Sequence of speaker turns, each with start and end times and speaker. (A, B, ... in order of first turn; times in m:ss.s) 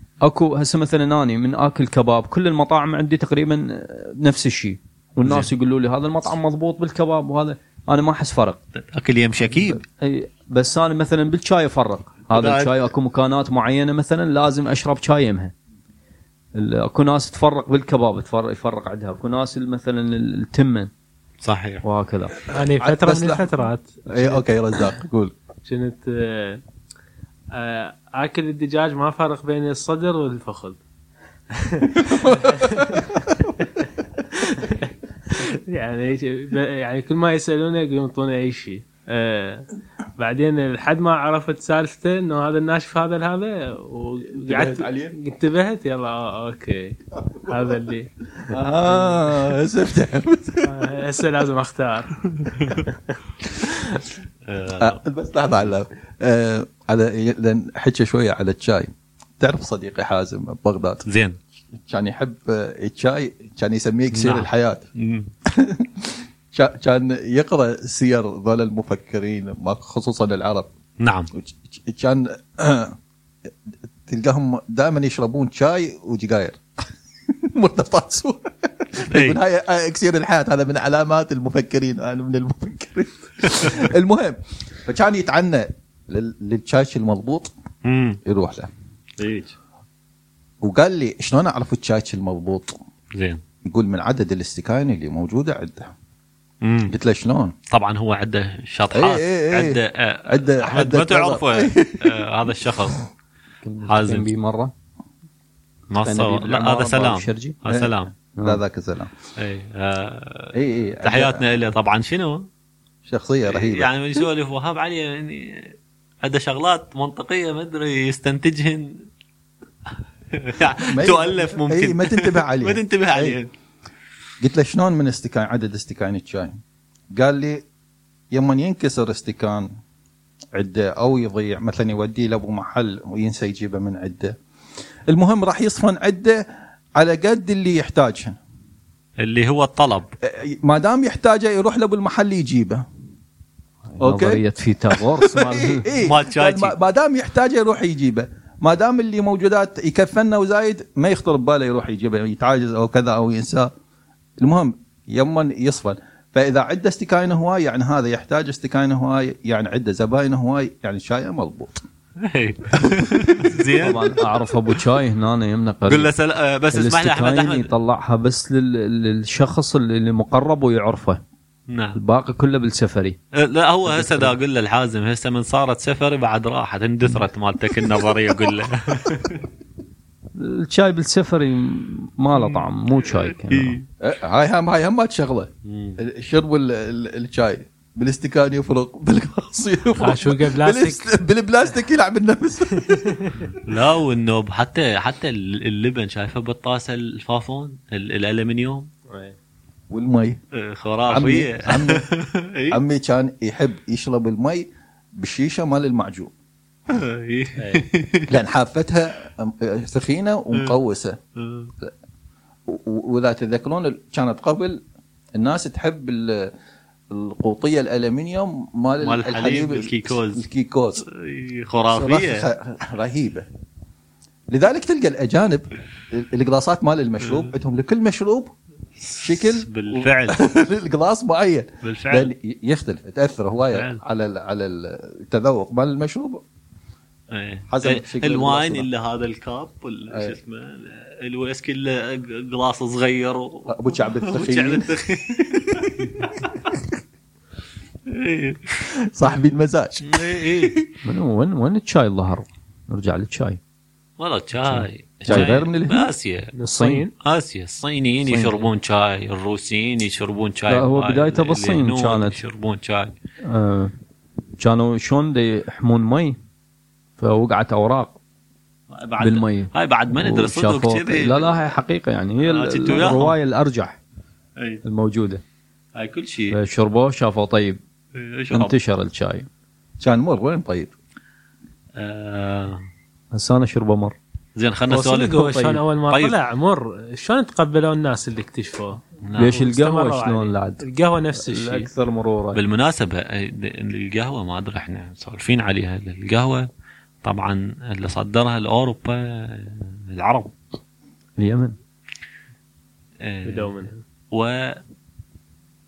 0:00.2-0:08.6 A
0:08.9-0:09.8 B
0:10.0-0:15.5 A
0:12.3-0:12.9 B
0:16.6-0:20.9 A
0:21.4-0:21.8 B
0:21.8-0:22.3 A
0:22.5-0:24.4 C
0:22.8-0:25.3 D
0:25.6-0:26.6 C
0:27.5-0:30.8 C
0:31.5-0:49.3 C
0:32.0-0:33.2 D
0:44.4-0:45.2 D
0:48.4-0:50.9 D
0:50.6-0:53.0 C
0:54.5-0:55.0 B
0:54.8-1:01.0 D
1:01.1-1:01.4 B
1:01.8-1:04.9 D
1:04.1-1:05.3 B
1:05.5-1:10.7 D
1:11.0-1:11.3 B
1:11.3-1:13.0 D
1:14.1-1:27.5 D
1:19.1-1:19.4 B
1:27.8-1:28.2 B
1:28.3-1:28.7 D
1:29.2-1:29.5 B
1:30.6-1:32.8 D
1:33.2-1:33.4 B
1:33.6-1:35.9 D
1:36.6-1:36.9 B
1:36.9-1:37.5 D
1:37.7-1:43.0 B
1:38.9-1:42.2 D
1:43.6-1:44.7 A
1:43.9-1:44.3 B
1:45.9-1:48.1 B
1:46.0-1:47.6 A
1:47.7-1:49.1 D
1:48.4-1:48.6 A
1:49.4-1:52.5 B
1:50.5-1:51.5 D
1:53.1-1:54.2 D
1:53.5-1:59.1 B
2:00.3-2:03.5 B
2:00.8-2:03.4 D
2:04.4-2:06.6 D
2:07.1-2:07.6 D
2:08.3-2:09.7 D
2:10.6-2:14.4 D
2:15.1-2:16.5 D
2:17.0-2:18.4 D
2:19.2-2:20.1 B
2:20.2-2:22.8 D
2:24.0-2:25.8 A
2:24.0-2:24.4 D
2:25.2-2:33.7 D
2:26.0-2:26.8 B
2:34.4-2:41.8 D
2:42.2-2:44.7 B
2:42.8-2:43.1 D
2:43.8-2:46.1 A
2:45.9-2:47.7 B
2:46.7-2:51.2 A
2:51.7-2:52.0 B
2:52.0-2:53.2 A
2:53.4-2:59.4 B
2:53.9-2:54.3 A
3:00.4-3:03.8 A
3:02.4-3:03.8 B
3:04.0-3:13.2 D
3:05.6-3:06.0 B
3:10.0-3:11.1 C
3:12.8-3:13.5 C
3:13.6-3:18.9 B
3:19.1-3:19.4 C
3:19.9-3:20.4 D
3:20.5-3:22.8 B
3:21.1-3:22.1 D
3:22.7-3:26.3 D
3:26.9-3:28.4 B
3:27.6-3:27.8 C
3:28.3-3:31.2 D
3:31.4-3:31.7 B
3:32.7-3:34.8 D
3:35.4-3:36.5 D
3:37.1-3:41.0 D
3:39.0-3:40.4 B
3:41.0-3:42.5 B
3:41.9-3:43.5 D
3:44.5-3:48.5 D
3:49.0-3:50.4 B
3:49.2-3:56.4 D
3:51.8-3:52.3 B
3:53.7-3:54.0 B
3:57.3-4:06.4 B
3:57.7-3:58.9 D
4:00.1-4:00.4 D
4:03.7-4:06.8 D
4:08.1-4:08.8 B
4:09.0-4:10.8 D
4:10.1-4:10.8 B
4:11.0-4:13.6 A
4:14.2-4:16.5 B
4:14.6-4:15.5 A
4:15.3-4:16.1 D
4:16.6-4:17.1 C
4:16.7-4:17.0 A
4:17.2-4:23.2 B
4:18.3-4:18.6 A
4:20.7-4:22.4 A
4:23.4-4:23.9 A
4:24.6-4:26.4 A
4:27.2-4:28.2 A
4:28.9-4:31.7 B
4:29.2-4:34.0 A
4:32.4-4:33.4 B
4:34.6-4:34.8 B
4:34.8-4:35.4 A
4:36.0-4:36.6 B
4:36.5-4:37.8 A
4:38.2-4:38.8 B
4:38.5-4:39.5 A
4:40.0-4:40.9 D
4:42.0-4:42.8 B
4:43.3-4:44.2 A
4:44.6-4:46.4 B
4:44.9-4:51.9 C
4:45.4-4:45.8 A
4:49.2-4:49.6 B
4:49.4-4:50.8 A
4:51.4-4:52.6 A
4:52.5-4:56.7 B
4:57.2-5:00.6 B
5:01.4-5:01.8 A
5:03.2-5:04.8 B
5:03.4-5:04.0 C